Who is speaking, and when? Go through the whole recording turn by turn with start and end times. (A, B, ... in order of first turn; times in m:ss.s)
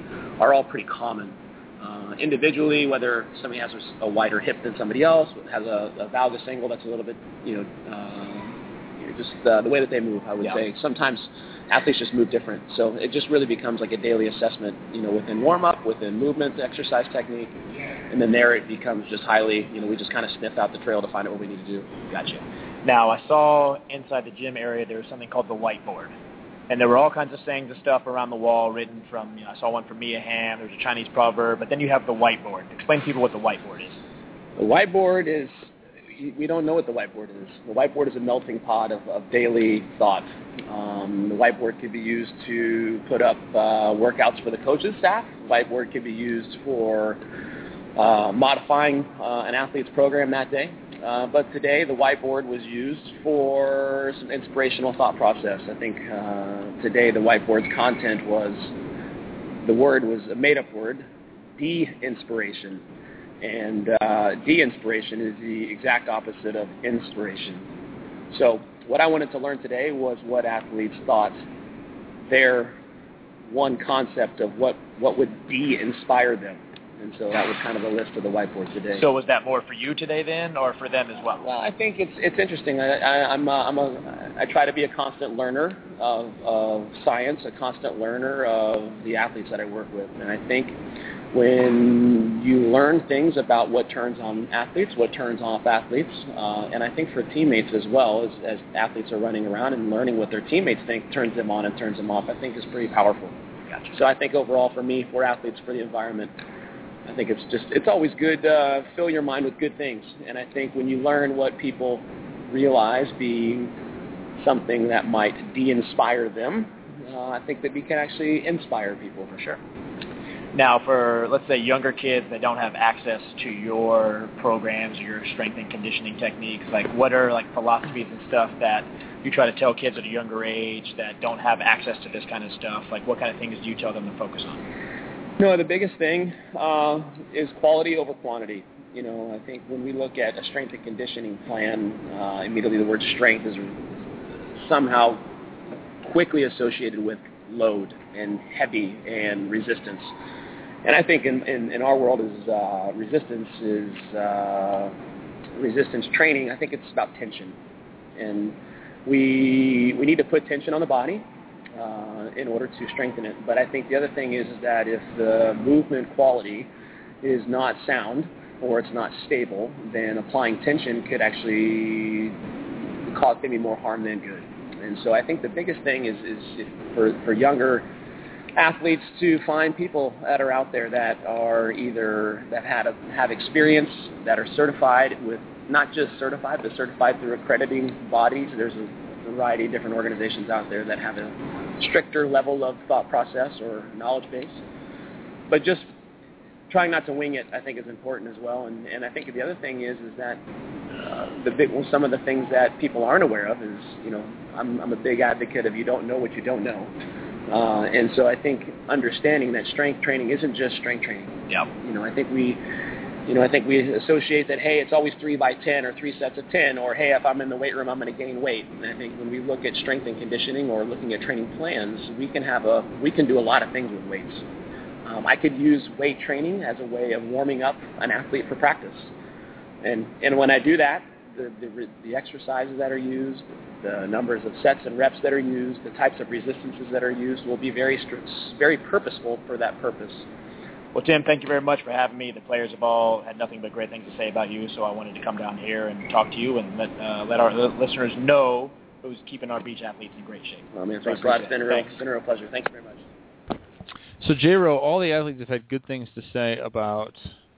0:00.4-0:17.5 A
0:18.1-0:22.0 A
0:22.1-0:26.1 B
0:26.7-0:34.0 B
0:34.6-0:47.2 A
0:48.0-0:58.7 A
0:59.6-1:01.0 A
1:01.6-1:02.8 A
1:03.4-1:07.7 A
1:08.3-1:11.4 A
1:12.3-1:12.8 A
1:13.5-1:19.0 A
1:18.9-1:21.4 B
1:21.4-1:30.7 A
1:31.3-1:43.3 A
1:43.9-1:46.3 A
1:47.0-1:53.7 A
1:54.4-1:59.6 A
2:00.5-2:14.6 B
2:15.4-2:23.8 A
2:24.5-2:25.2 A
2:26.0-2:30.1 A
2:30.8-2:34.9 A
2:35.6-2:37.6 A
2:38.2-2:46.7 A
2:47.2-2:52.3 A
2:53.1-2:57.9 A
2:58.6-3:14.6 A
3:15.5-3:15.9 A
3:16.7-3:20.4 A
3:20.9-3:26.9 A
3:27.5-3:32.6 A
3:33.3-3:44.4 A
3:45.0-3:49.1 A
3:49.8-4:00.2 A
4:00.9-4:11.9 B
4:10.7-4:13.0 A
4:14.2-4:17.4 C